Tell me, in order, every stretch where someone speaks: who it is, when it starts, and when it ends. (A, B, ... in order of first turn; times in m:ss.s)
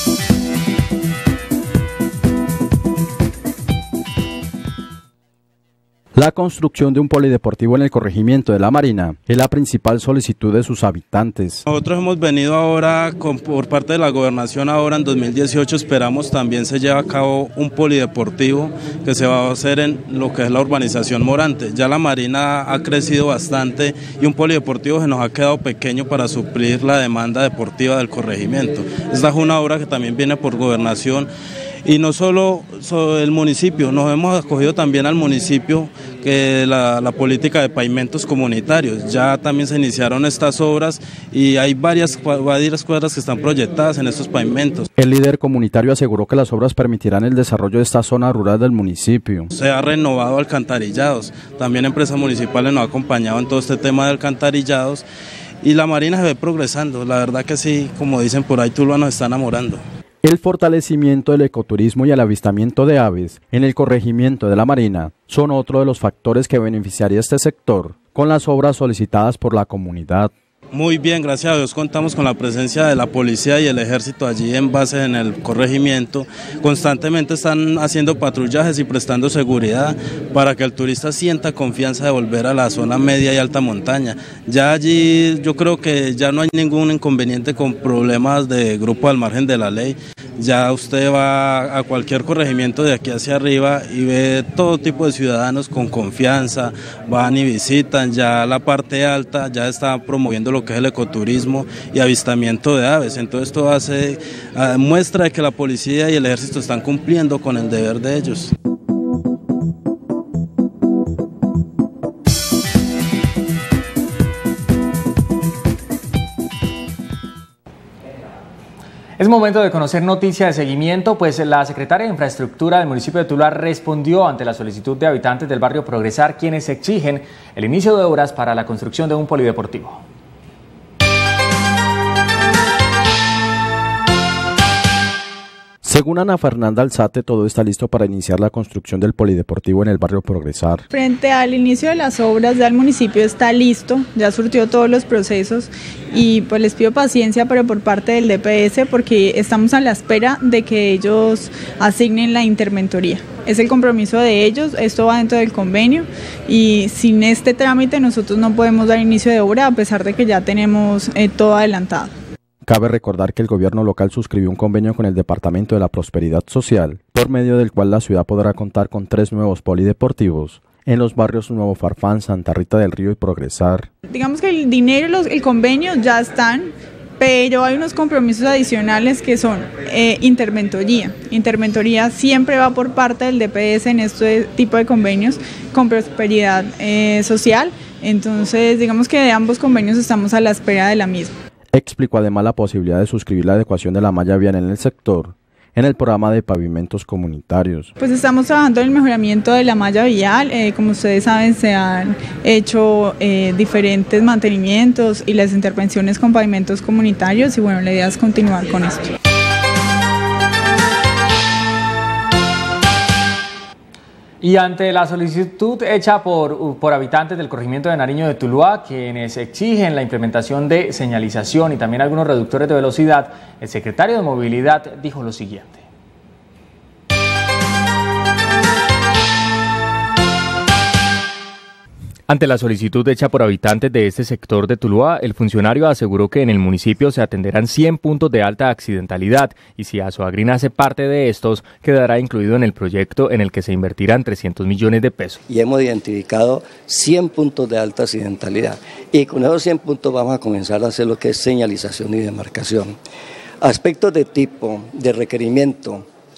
0:06.1-0:11.6 A
0:11.7-0:31.3 B
0:31.8-0:44.9 B
0:45.0-0:49.5 A
0:49.5-0:55.0 B
0:55.6-0:59.8 B
1:00.2-1:10.3 A
1:10.7-1:48.5 B
1:59.2-2:10.0 C
2:15.8-2:20.8 A
2:20.9-2:42.1 D
2:42.6-2:53.9 A
2:54.1-3:11.3 D
3:11.7-3:17.9 A
3:18.0-3:29.1 D
3:34.4-3:45.8 C
3:52.3-4:05.4 C
4:05.5-4:12.9 E
4:13.6-4:16.0 E